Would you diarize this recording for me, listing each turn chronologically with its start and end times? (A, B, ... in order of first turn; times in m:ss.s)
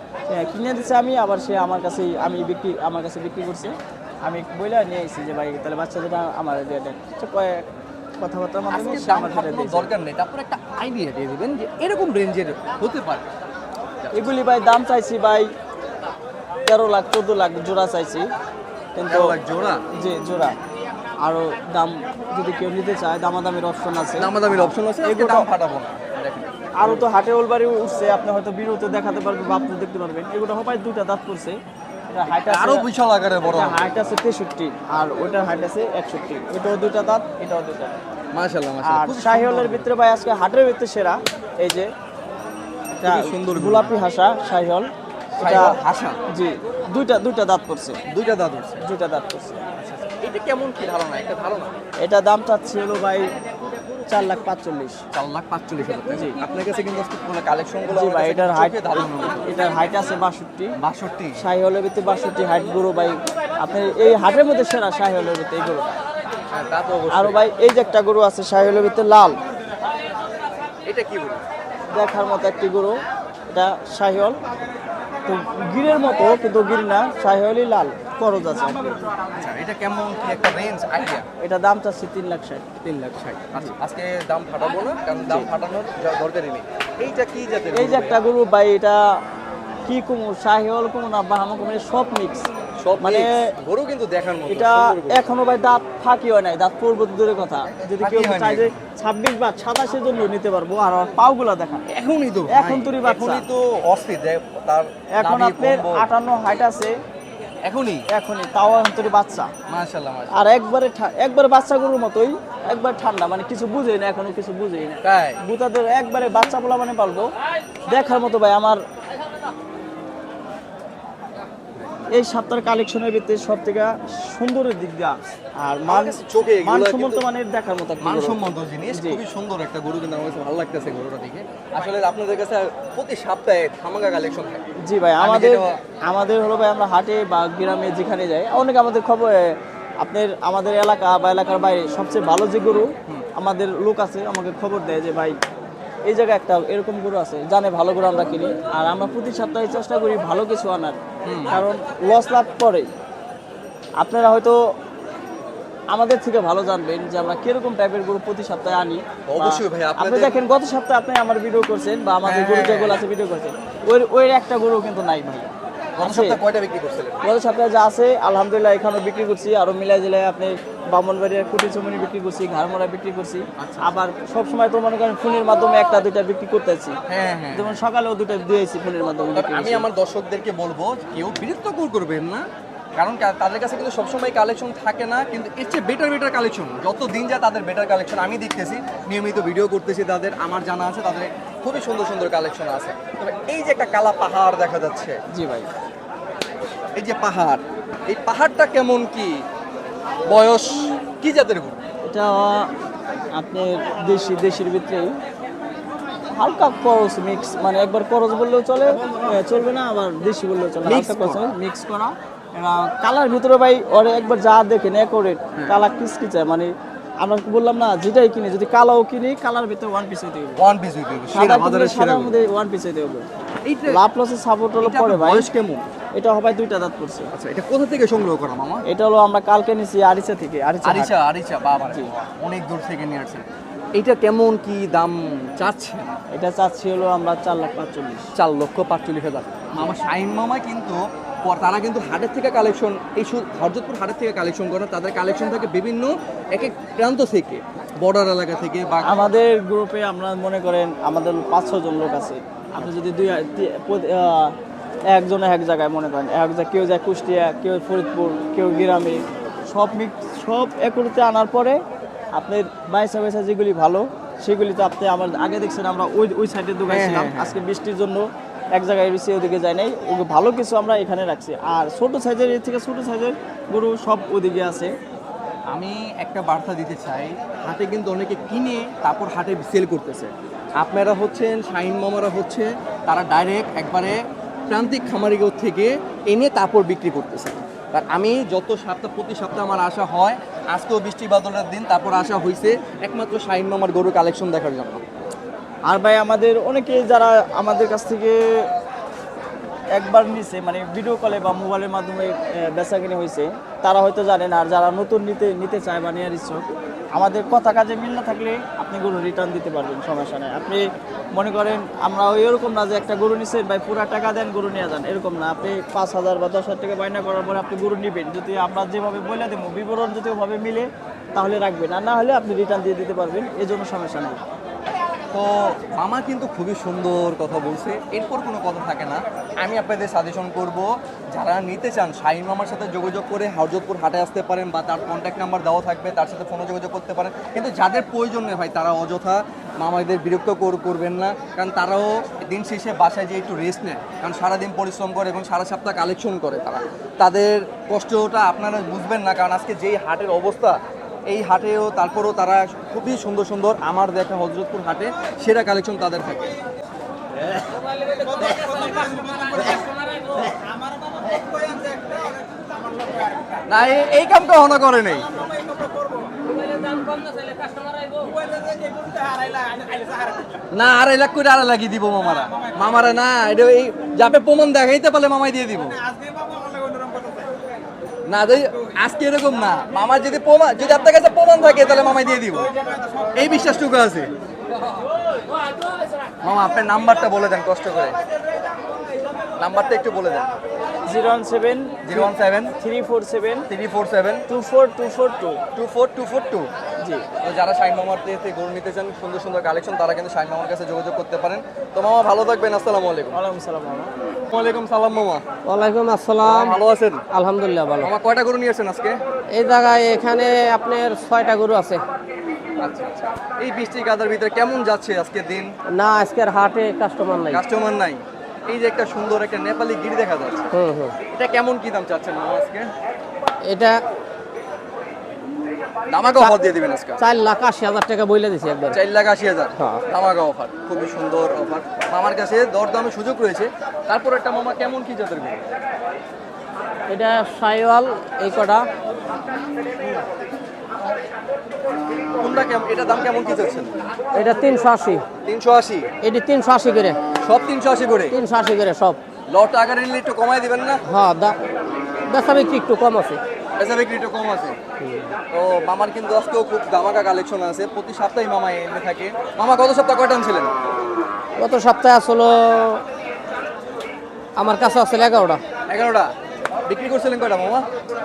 0:00.3-0:07.7 A
0:08.2-0:09.9 A
0:08.7-0:13.2 B
0:14.0-0:14.3 B
0:14.1-0:15.5 A
0:16.7-0:18.3 A
0:19.0-0:19.4 A
0:19.1-0:19.8 B
0:19.9-0:20.6 A
0:21.2-0:25.5 A
0:24.2-0:27.1 B
0:26.8-0:31.6 A
0:32.1-0:32.9 A
0:32.4-0:34.2 B
0:33.4-0:38.0 A
0:38.3-0:39.9 B
0:38.8-0:41.9 A
0:43.0-0:45.8 A
0:43.0-0:44.0 B
0:45.4-0:46.2 B
0:46.3-0:48.0 A
0:48.1-0:48.8 B
0:48.8-0:49.6 A
0:49.7-0:51.7 B
0:52.0-0:53.3 A
0:54.1-0:55.0 A
0:55.1-0:59.5 B
0:56.1-0:56.4 A
0:57.9-1:00.8 A
1:00.8-1:01.4 B
1:01.4-1:06.0 A
1:06.5-1:07.4 B
1:07.1-1:09.4 A
1:10.8-1:11.4 B
1:11.9-1:14.5 A
1:15.3-1:19.0 A
1:19.3-1:21.3 B
1:21.4-1:22.7 A
1:22.8-1:28.2 B
1:27.7-1:29.2 A
1:29.9-1:32.5 A
1:32.8-1:35.3 B
1:33.0-1:33.5 A
1:34.5-1:41.9 A
1:38.0-1:38.8 B
1:41.9-1:46.1 B
1:42.5-1:43.5 A
1:45.2-1:46.9 A
1:47.6-1:48.1 B
1:48.1-1:49.5 A
1:49.7-1:50.5 B
1:50.3-1:57.3 A
1:55.0-1:55.4 B
1:57.9-1:58.8 A
2:02.1-2:09.2 A
2:05.9-2:07.2 B
2:08.0-2:14.7 B
2:14.8-2:25.4 A
2:15.2-2:15.8 B
2:26.1-2:32.9 A
2:31.2-2:31.6 B
2:34.0-2:34.6 A
2:35.9-2:46.4 A
2:39.3-2:40.4 B
2:42.2-2:43.0 B
2:46.0-2:47.2 B
2:47.2-2:57.0 A
2:53.6-2:54.0 B
2:57.1-2:57.8 B
2:57.5-2:59.9 A
2:59.3-3:15.2 B
3:15.3-3:15.7 A
3:17.0-3:19.4 B
3:20.3-3:21.8 B
3:22.0-3:22.7 A
3:23.4-3:25.2 A
3:26.3-3:40.6 A
3:30.8-3:31.5 B
3:40.6-3:42.4 B
3:41.3-3:43.3 A
3:43.6-3:44.0 B
3:43.9-3:45.5 A
3:44.8-3:45.9 B
3:46.2-3:47.3 A
3:47.3-3:48.8 B
3:48.9-3:51.1 A
3:50.8-3:56.2 B
3:56.3-3:58.3 A
3:58.4-4:09.3 B
4:09.0-4:14.6 A
4:15.1-4:21.8 A
4:22.4-4:34.9 A
4:26.9-4:27.6 B
4:35.7-4:55.0 B
4:55.9-4:58.7 A
5:00.0-5:10.8 A
5:11.3-5:24.4 A
5:25.3-5:56.6 B
6:03.7-6:05.3 B
6:10.7-6:16.0 B
6:18.3-6:22.7 B
6:23.3-6:24.3 B
6:26.4-6:28.2 B
6:29.6-6:30.5 B
6:31.1-6:33.7 A
6:32.0-6:32.8 B
6:33.7-6:34.5 B
6:34.5-6:35.6 A
6:35.8-6:36.7 B
6:37.0-6:37.3 A
6:37.4-6:43.4 B
6:43.3-6:44.1 A
6:44.5-6:45.4 B
6:45.7-6:48.1 C
6:46.4-6:47.2 B
6:48.0-6:49.2 B
6:49.5-6:52.0 C
6:52.8-6:55.7 B
6:55.9-6:57.6 C
6:57.5-7:00.7 B
7:00.7-7:01.2 C
7:01.3-7:02.9 B
7:03.6-7:04.0 C
7:06.1-7:07.2 B
7:07.2-7:09.0 C
7:08.9-7:15.6 B
7:09.8-7:10.0 C
7:17.1-7:18.9 C
7:22.4-7:23.9 B
7:24.4-7:25.2 C
7:25.4-7:26.1 B
7:26.2-7:27.2 C
7:27.4-7:28.4 B
7:28.3-7:29.2 C
7:29.5-7:31.0 B
7:31.1-7:31.6 C
7:32.3-7:33.4 C
7:33.8-7:34.8 B
7:35.0-7:35.3 C
7:35.5-7:40.7 B
7:41.6-7:43.0 C
7:44.6-7:45.6 C
7:45.9-7:46.3 B
7:46.9-7:47.9 B